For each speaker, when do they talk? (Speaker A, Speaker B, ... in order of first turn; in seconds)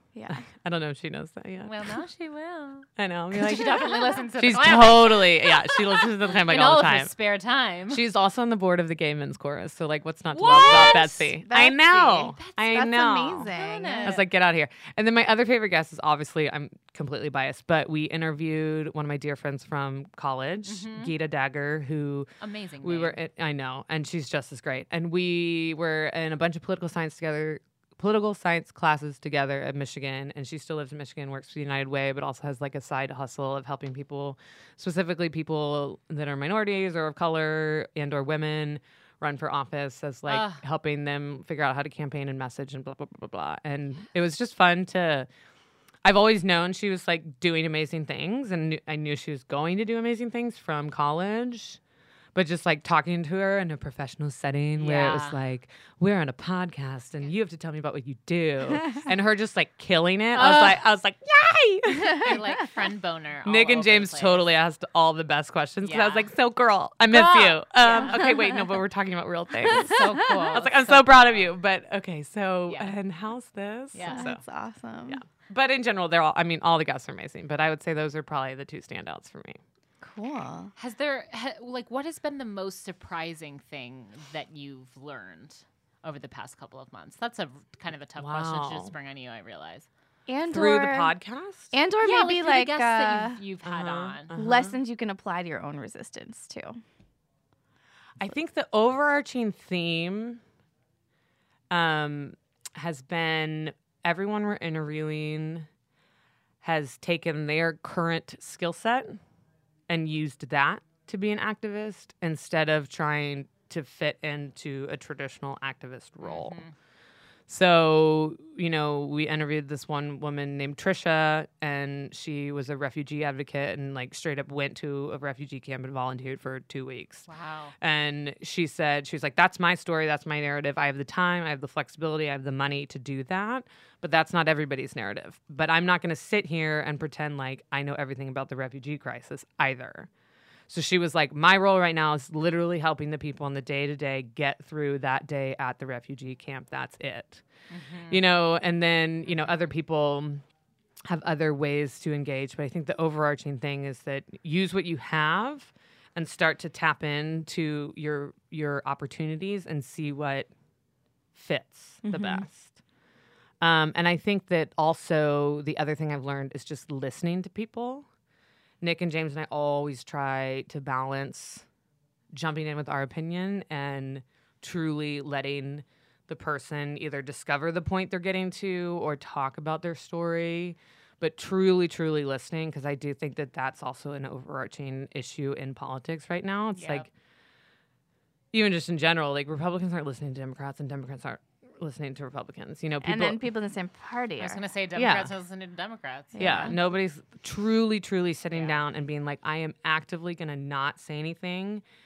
Speaker A: 0.1-0.4, 10.6-14.2, 67.9-68.6, 69.7-70.5, 74.0-75.2, 80.0-80.7, 90.3-91.1, 91.7-93.4, 94.3-96.8, 162.0-162.4, 193.0-194.6, 196.3-196.8
Speaker B: 0.3-1.8, 3.0-7.1, 7.9-22.3, 22.8-45.3, 46.0-51.8, 52.3-62.5, 63.4-74.4, 75.1-79.6, 88.2-88.9, 90.4-91.7, 93.6-94.8, 98.2-100.4, 101.7-105.7, 106.6-109.2, 109.9-116.6, 117.5-127.3, 127.8-140.1, 140.7-147.4, 148.1-150.4, 151.0-160.5, 161.3-162.8, 163.6-168.1, 168.8-171.6, 172.3-187.1, 188.5-193.4, 194.9-195.3, 196.4-201.8
Speaker C: 1.6-8.0, 10.3-11.4, 12.3-12.6, 13.4-14.2, 20.6-21.1, 22.4-23.2, 40.3-40.6, 54.8-55.4, 60.3-60.8, 62.0-64.5, 65.8-66.3, 67.1-68.2, 69.6-71.5, 72.7-73.0, 73.9-74.3, 80.8-89.9, 92.0-94.3, 116.2-116.7, 127.3-127.7, 147.7-148.2, 149.2-149.5, 186.7-187.1, 194.4-196.8, 198.5-198.8